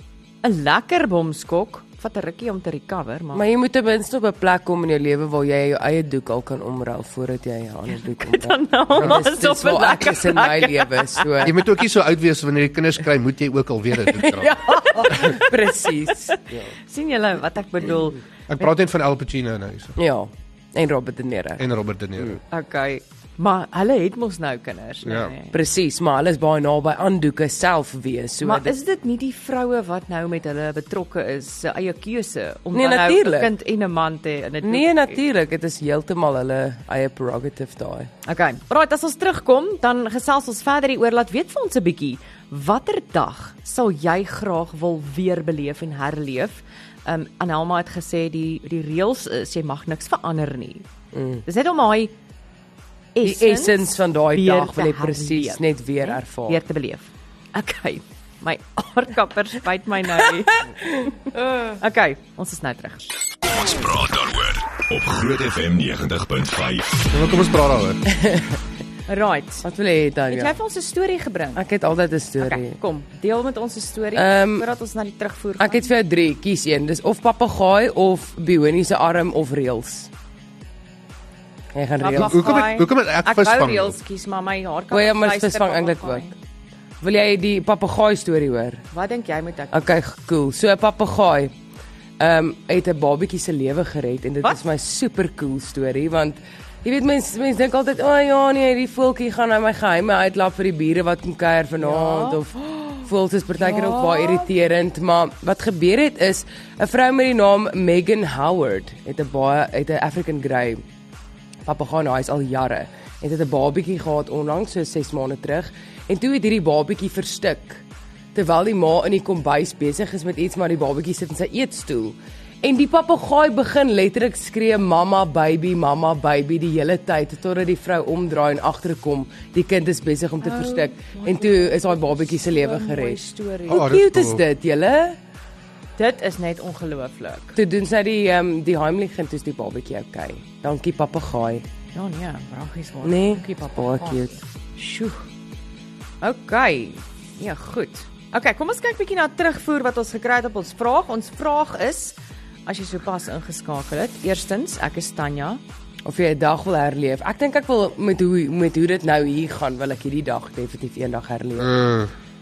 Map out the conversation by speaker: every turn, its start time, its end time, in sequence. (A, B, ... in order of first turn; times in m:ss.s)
0:00.4-0:03.4 A
0:03.3-0:11.6 B
0:08.2-0:11.5 A
0:11.4-0:14.6 C
0:14.2-0:16.7 B
0:14.2-0:16.3 A
0:16.9-0:18.2 A
0:18.5-0:20.0 C
0:20.0-0:21.6 B
0:21.6-0:22.4 C
0:22.5-0:25.5 A
0:25.0-0:25.3 C
0:25.5-0:28.7 B
0:28.4-0:35.2 A
0:32.7-0:33.5 B
0:34.6-0:38.1 B
0:38.2-0:50.8 A
0:51.1-0:51.4 B
0:51.4-0:52.1 A
0:53.1-1:03.1 A
0:53.2-0:56.6 B
1:03.5-1:07.1 D
1:07.1-1:08.0 C
1:08.1-1:08.5 B
1:09.1-1:09.6 A
1:09.6-1:10.5 B
1:10.3-1:11.6 A
1:11.6-1:12.8 B
1:12.4-1:15.8 A
1:14.1-1:14.7 B
1:15.6-1:20.1 B
1:21.7-1:22.5 B
1:22.0-1:26.3 A
1:22.1-1:24.0 C
1:24.9-1:26.3 B
1:27.0-1:28.8 B
1:28.9-1:29.9 A
1:29.7-1:31.5 B
1:32.2-1:50.8 B
1:41.8-1:42.4 A
1:43.6-1:44.4 A
1:51.6-1:57.8 B
1:58.3-2:15.2 B
2:10.4-2:13.8 A
2:13.7-2:14.4 C
2:16.0-2:17.6 A
2:17.6-2:21.6 B
2:21.9-2:25.3 A
2:23.0-2:24.3 B
2:26.2-2:35.6 A
2:36.0-2:41.8 B
2:41.6-2:42.1 C